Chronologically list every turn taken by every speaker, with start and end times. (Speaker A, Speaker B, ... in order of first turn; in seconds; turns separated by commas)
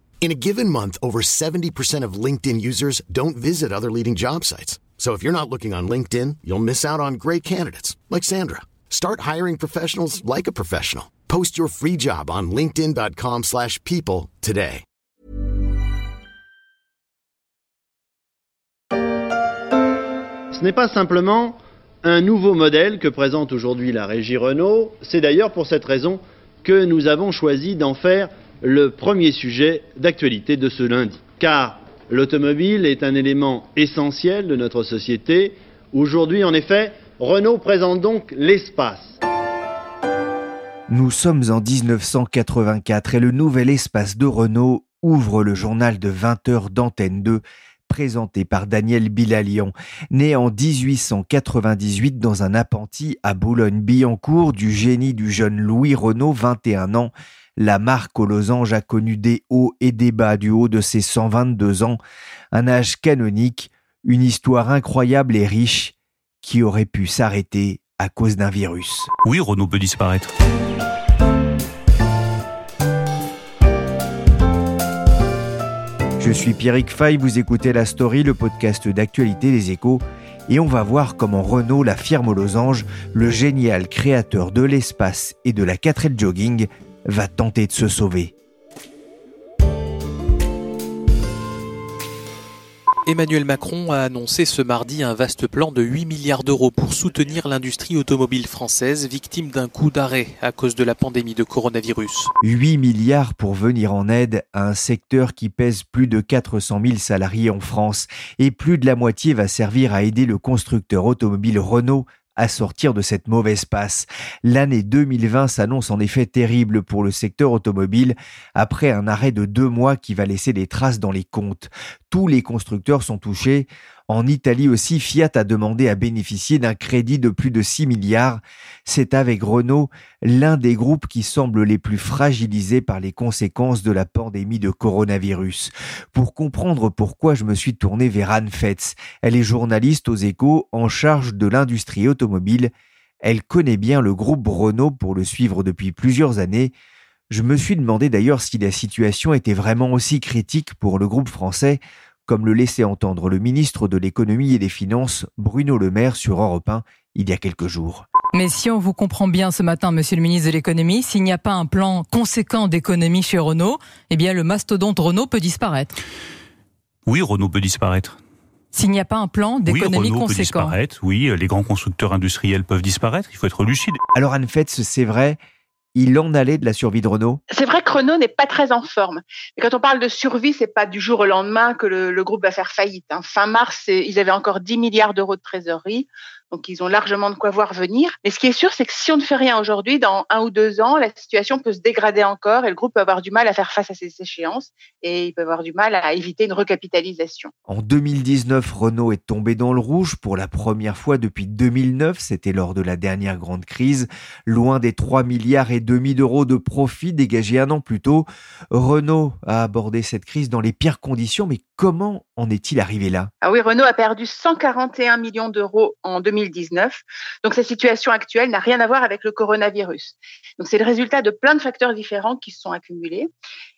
Speaker A: 0.2-14.8, Speaker B: 20.5-39.2, Speaker C: 40.9-62.0, Speaker C: 62.5-69.1, Speaker D: 69.2-70.3, Speaker C: 76.2-88.3, Speaker E: 93.0-102.3, Speaker C: 102.4-146.7, Speaker C: 147.3-158.1, Speaker F: 158.3-165.9, Speaker D: 167.1-168.2, Speaker F: 168.7-170.8, Speaker D: 169.6-174.0, Speaker C: 174.1-175.4, Speaker C: 175.9-177.4, Speaker G: 177.5-197.5, Speaker C: 197.7-213.3, Speaker G: 213.4-223.3